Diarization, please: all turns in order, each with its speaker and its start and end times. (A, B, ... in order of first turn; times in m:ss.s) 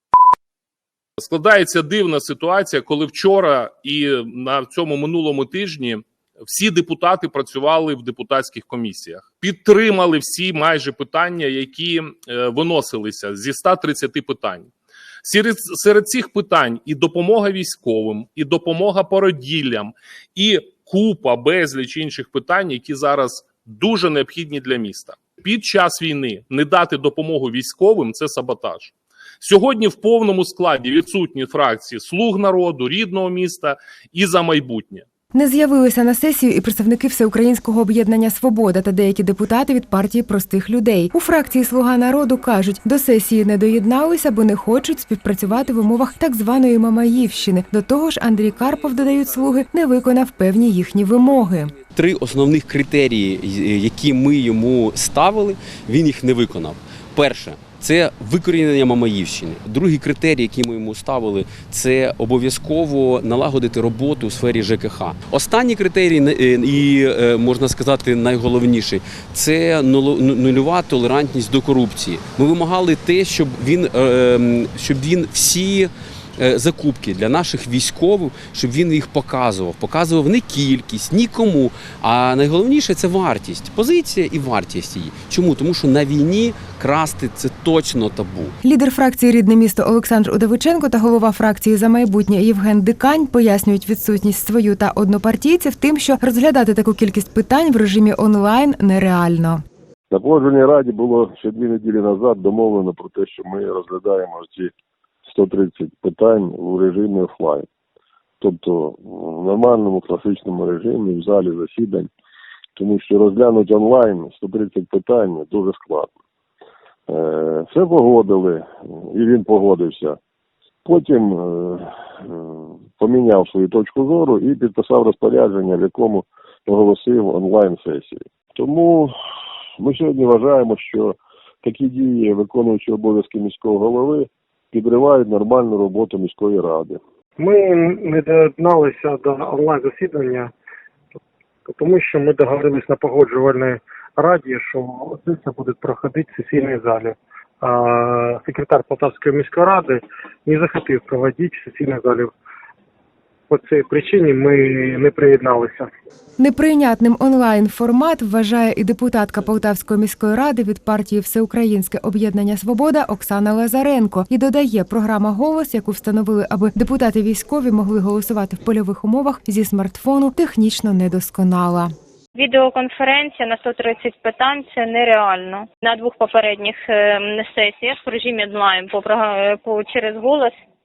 0:01.2-0:14.7 A
0:15.2-0:35.0 A
0:35.3-0:51.7 B
0:51.9-1:28.5 C
1:28.6-1:39.6 B
1:40.1-1:44.7 D
1:45.2-1:47.7 D
1:48.4-1:52.1 D
1:52.8-1:56.1 D
1:57.1-2:00.2 D
2:00.8-2:09.1 D
2:09.8-2:17.0 D
2:17.4-2:20.5 E
2:21.7-2:32.3 E
2:33.5-2:35.9 E
2:36.4-2:51.9 B
2:52.3-3:00.5 F